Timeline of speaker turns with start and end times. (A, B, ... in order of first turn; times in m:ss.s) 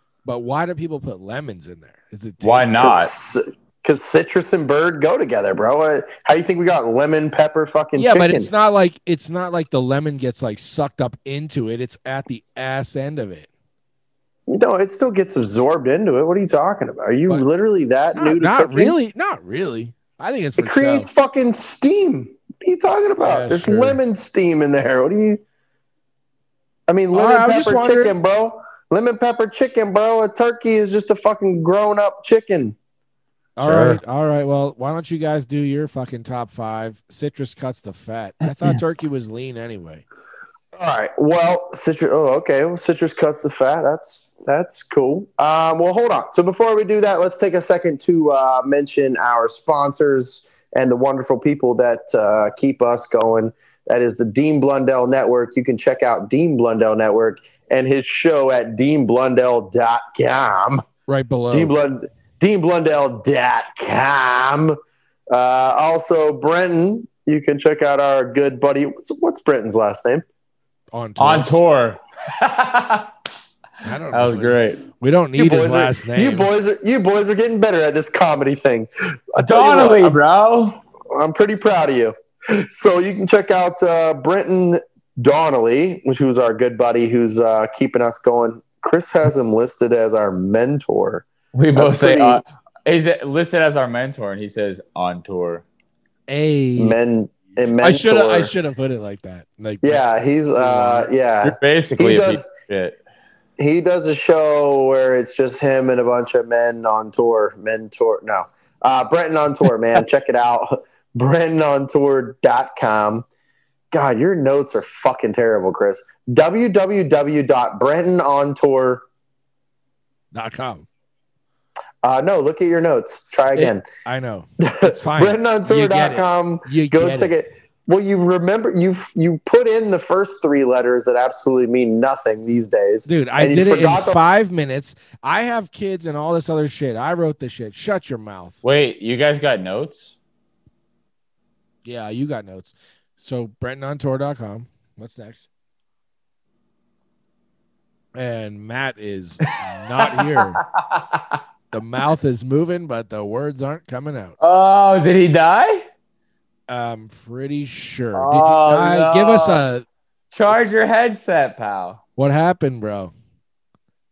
0:00.2-0:02.7 A
0:02.4-0:03.1 B
0:02.8-0:08.5 C
0:08.0-0:13.5 A
0:14.5-0:19.0 C
0:18.1-0:21.1 A
0:20.6-0:25.4 C
0:23.2-0:24.0 B
0:26.9-0:32.8 C
0:27.1-0:28.2 A
0:33.6-0:40.0 A
0:33.6-0:34.0 B
0:40.8-1:00.9 C
1:01.1-1:01.8 A
1:01.5-1:04.8 C
1:05.3-1:10.2 C
1:10.9-1:11.5 A
1:11.2-1:13.1 B
1:13.8-1:16.5 A
1:14.1-1:14.8 B
1:15.4-1:20.2 C
1:19.4-1:20.8 B
1:21.1-1:32.4 C
1:31.5-1:35.6 B
1:36.3-1:37.0 A
1:36.8-1:38.5 C
1:37.8-1:41.1 A
1:39.8-1:42.4 C
1:41.4-1:43.0 B
1:43.6-1:53.3 C
1:53.9-1:59.0 C
2:00.3-2:00.9 A
2:02.0-2:03.8 C
2:03.6-2:07.3 A
2:04.6-2:14.2 C
2:13.1-2:18.6 A
2:18.6-2:20.2 B
2:21.8-2:25.5 A
2:28.2-2:30.6 A
2:30.0-2:31.4 B
2:31.7-2:34.4 A
2:34.4-2:35.9 B
2:36.7-2:39.9 A
2:38.2-2:39.6 B
2:40.3-2:42.0 B
2:42.2-2:43.1 A